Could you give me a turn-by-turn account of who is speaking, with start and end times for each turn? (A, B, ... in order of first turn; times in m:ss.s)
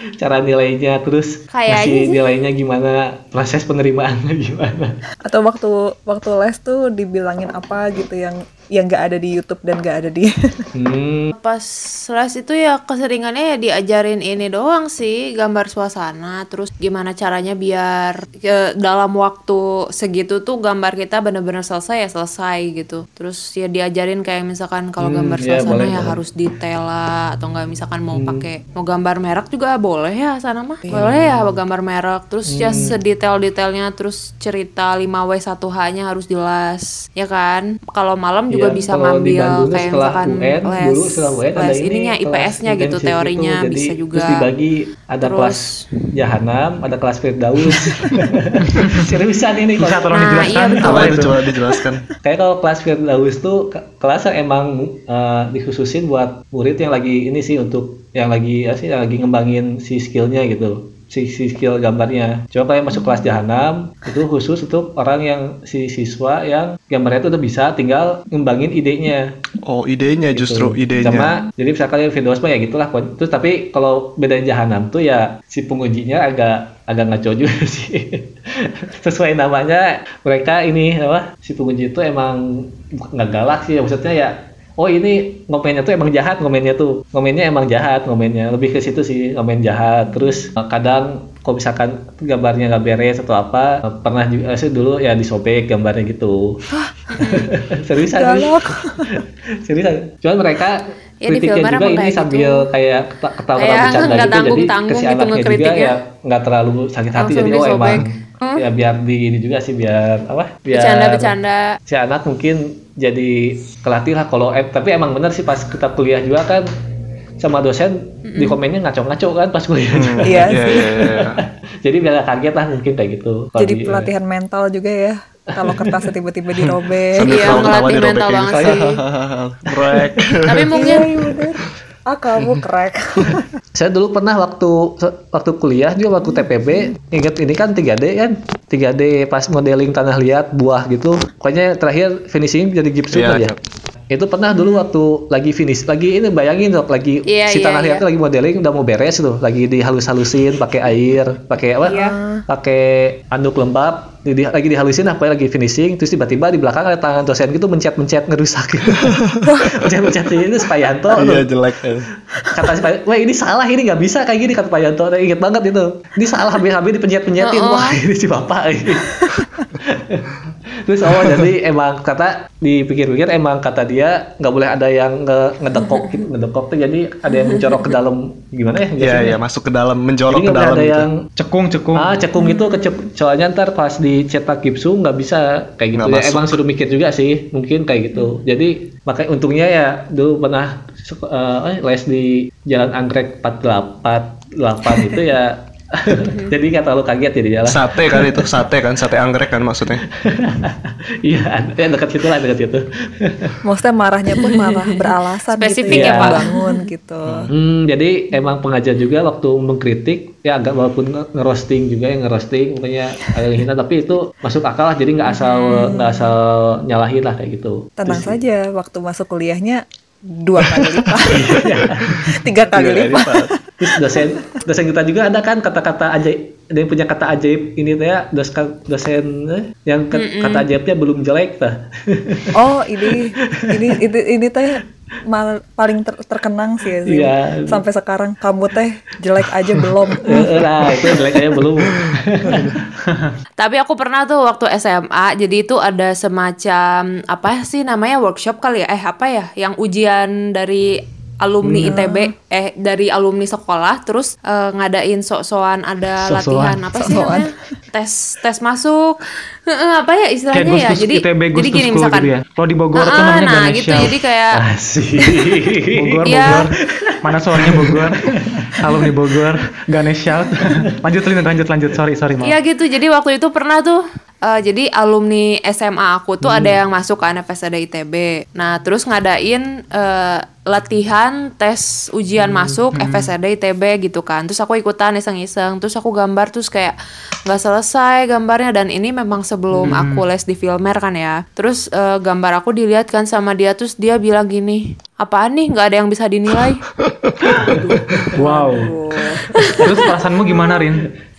0:00.2-0:05.0 A
0:01.5-0:02.4 B
0:05.2-0:10.7 C
0:10.8-0:11.3 A
0:11.3-0:44.5 B
0:25.0-0:26.2 A
0:28.1-0:28.4 A
0:30.9-0:31.6 A
0:32.5-0:33.0 A
0:38.5-0:50.1 A
0:45.2-0:45.9 B
0:48.7-0:49.0 D
0:49.8-0:51.3 D
0:50.1-0:51.2 B
0:50.8-0:52.0 E
0:52.2-1:09.3 A
1:09.6-1:11.3 E
1:10.3-1:36.6 A
1:30.1-1:30.4 C
1:37.1-1:37.5 B
1:37.2-1:51.4 A
1:38.0-1:39.1 C
1:41.2-1:42.7 B
1:43.6-1:46.0 B
1:47.1-1:48.7 B
1:50.7-1:51.8 B
1:51.9-1:56.7 A
1:57.4-2:04.1 A
1:58.3-1:58.6 B
1:59.9-2:01.4 E
2:00.2-2:00.9 C
2:03.6-2:07.7 C
2:05.6-2:05.9 A
2:06.6-2:10.8 E
2:07.2-2:09.0 B
2:08.5-2:09.0 A
2:09.7-2:10.3 A
2:10.4-2:11.1 B
2:10.7-2:13.4 C
2:13.7-2:23.6 A
2:16.2-2:16.9 C
2:23.1-2:23.6 E
2:24.1-2:39.2 A
2:24.5-2:24.8 C
2:27.2-2:28.0 B
2:31.8-2:32.4 C
2:31.9-2:32.1 B
2:39.1-2:39.5 E
2:39.4-2:39.8 C
2:39.7-2:41.5 A
2:41.1-2:42.1 E
2:42.5-2:59.4 A
2:47.4-2:48.0 B
2:51.2-2:51.5 E
2:55.8-2:56.2 B
2:57.3-2:57.9 B
2:59.0-3:01.1 E
3:00.3-3:01.2 A
3:01.4-3:02.2 D
3:01.9-3:18.5 A
3:02.4-3:02.8 B
3:05.9-3:06.6 E
3:16.2-3:16.5 B
3:17.6-3:20.0 E
3:20.1-3:23.6 A
3:23.6-3:27.5 C
3:24.4-3:26.8 B
3:25.9-3:26.4 A
3:27.2-3:27.5 E
3:27.5-3:38.4 A
3:35.3-3:36.0 B
3:35.7-3:36.4 C
3:38.0-3:39.8 C
3:40.4-3:44.4 C
3:41.3-3:42.2 A
3:42.1-3:43.5 E
3:43.8-3:52.5 A
3:50.1-3:50.7 B
3:52.5-4:01.6 C
3:53.1-3:54.0 A
3:57.0-3:57.8 A
3:59.7-4:02.8 A
4:01.9-4:02.6 E
4:03.0-4:03.3 D
4:03.6-4:22.3 B
4:11.8-4:12.3 C
4:16.2-4:16.8 D
4:17.0-4:17.5 C
4:20.5-4:24.1 D
4:22.9-4:24.6 B
4:24.5-4:28.8 A
4:25.2-4:25.5 B
4:26.0-4:28.3 D
4:26.2-4:26.6 B
4:28.8-4:32.6 D
4:32.4-4:46.9 B
4:36.4-4:36.8 D
4:42.4-4:43.3 D
4:47.4-4:56.8 B
4:49.7-4:50.2 D
4:57.0-4:58.0 E
4:57.7-4:58.3 A
4:57.7-4:59.4 C
4:58.4-4:58.9 D
4:59.5-4:59.9 B
4:59.6-5:01.1 D